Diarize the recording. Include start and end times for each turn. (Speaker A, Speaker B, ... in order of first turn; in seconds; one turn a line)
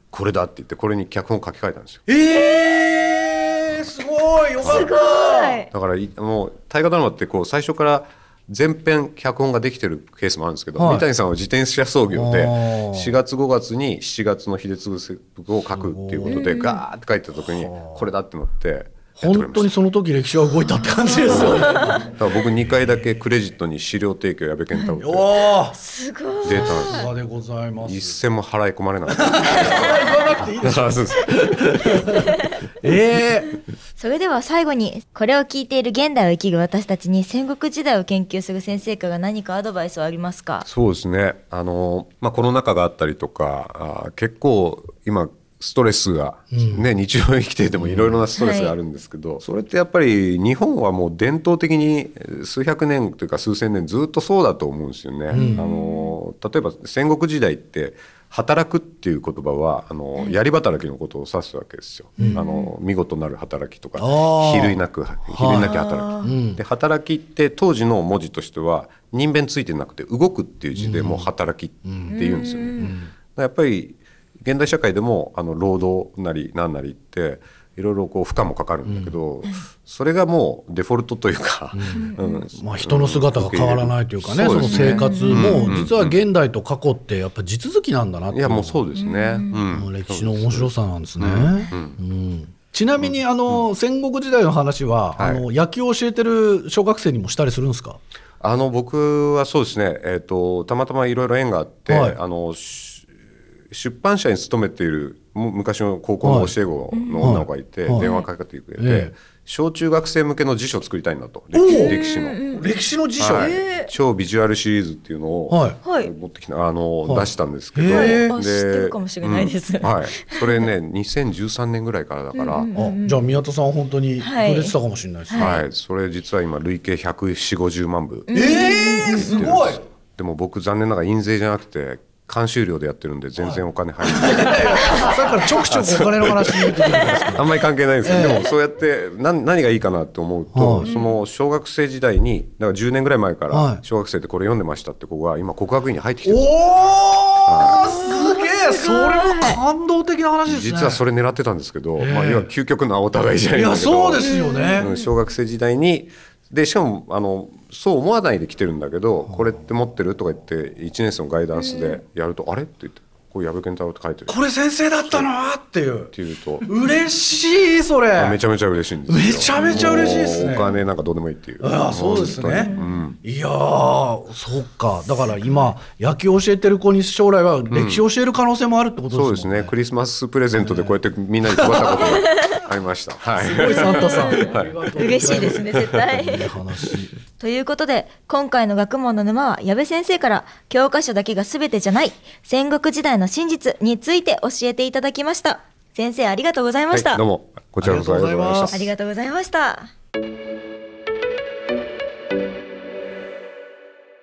Speaker A: 0.1-2.0
Speaker B: 2.1-5.6
Speaker C: 4.6-5.7
Speaker A: 4.6-4.9
Speaker A: 5.7-19.7
Speaker B: 10.8-11.1
Speaker B: 12.1-13.1
Speaker B: 15.7-16.5
Speaker C: 16.3-16.8
Speaker B: 17.4-18.0
Speaker B: 19.2-22.1
Speaker C: 20.8-22.0
Speaker A: 21.3-25.3
Speaker B: 22.7-23.2
Speaker B: 25.0-25.8
Speaker C: 25.7-27.1
Speaker A: 26.4-27.1
Speaker B: 26.4-28.2
Speaker A: 27.8-32.0
Speaker B: 29.1-33.5
Speaker C: 29.4-30.2
Speaker C: 32.0-32.6
Speaker C: 34.0-40.7
Speaker A: 40.6-86.2
Speaker B: 46.5-46.9
Speaker B: 47.8-48.2
Speaker C: 48.4-48.7
Speaker B: 55.3-55.6
Speaker C: 55.3-56.1
Speaker B: 62.2-62.4
Speaker C: 62.2-62.7
Speaker B: 64.0-64.8
Speaker B: 65.3-66.6
Speaker C: 65.6-66.3
Speaker B: 70.7-71.3
Speaker B: 71.8-72.2
Speaker C: 72.1-72.9
Speaker B: 72.8-73.1
Speaker B: 78.8-79.1
Speaker B: 81.7-88.8
Speaker C: 81.9-82.4
Speaker C: 84.6-85.9
Speaker A: 88.3-92.0
Speaker C: 89.0-89.6
Speaker B: 89.7-98.0
Speaker A: 93.0-93.6
Speaker A: 95.2-95.4
Speaker A: 98.4-103.1
Speaker B: 101.9-102.2
Speaker A: 103.7-112.4
Speaker B: 106.2-106.5
Speaker C: 106.9-107.3
Speaker B: 107.2-108.1
Speaker C: 108.0-108.3
Speaker B: 108.8-109.1
Speaker B: 111.5-113.6
Speaker C: 111.7-112.7
Speaker A: 113.2-122.7
Speaker C: 113.3-113.9
Speaker B: 115.5-115.8
Speaker C: 115.8-116.1
Speaker B: 117.0-118.3
Speaker C: 117.9-120.7
Speaker C: 122.3-123.2
Speaker B: 122.7-125.6
Speaker C: 124.2-124.7
Speaker C: 125.3-125.6
Speaker A: 125.3-128.3
Speaker C: 128.3-129.5
Speaker B: 128.3-129.8
Speaker A: 129.1-146.6
Speaker B: 133.4-138.5
Speaker B: 140.5-140.9
Speaker C: 140.8-141.2
Speaker B: 143.5-143.8
Speaker B: 146.2-151.0
Speaker A: 147.4-147.9
Speaker C: 147.8-149.6
Speaker A: 150.4-164.4
Speaker B: 152.0-152.5
Speaker B: 153.5-154.9
Speaker C: 154.2-155.1
Speaker C: 161.6-162.0
Speaker B: 164.3-166.1
Speaker A: 166.1-166.7
Speaker B: 166.7-168.4
Speaker A: 168.2-173.2
Speaker B: 169.1-170.7
Speaker C: 169.6-169.9
Speaker B: 171.6-179.7
Speaker C: 172.7-172.9
Speaker A: 177.7-178.0
Speaker A: 179.1-186.3
Speaker B: 180.6-182.1
Speaker C: 181.9-182.6
Speaker B: 183.4-187.1
Speaker C: 183.6-186.4
Speaker C: 187.4-197.2
Speaker A: 196.9-198.9
Speaker B: 197.8-198.7
Speaker C: 198.7-199.9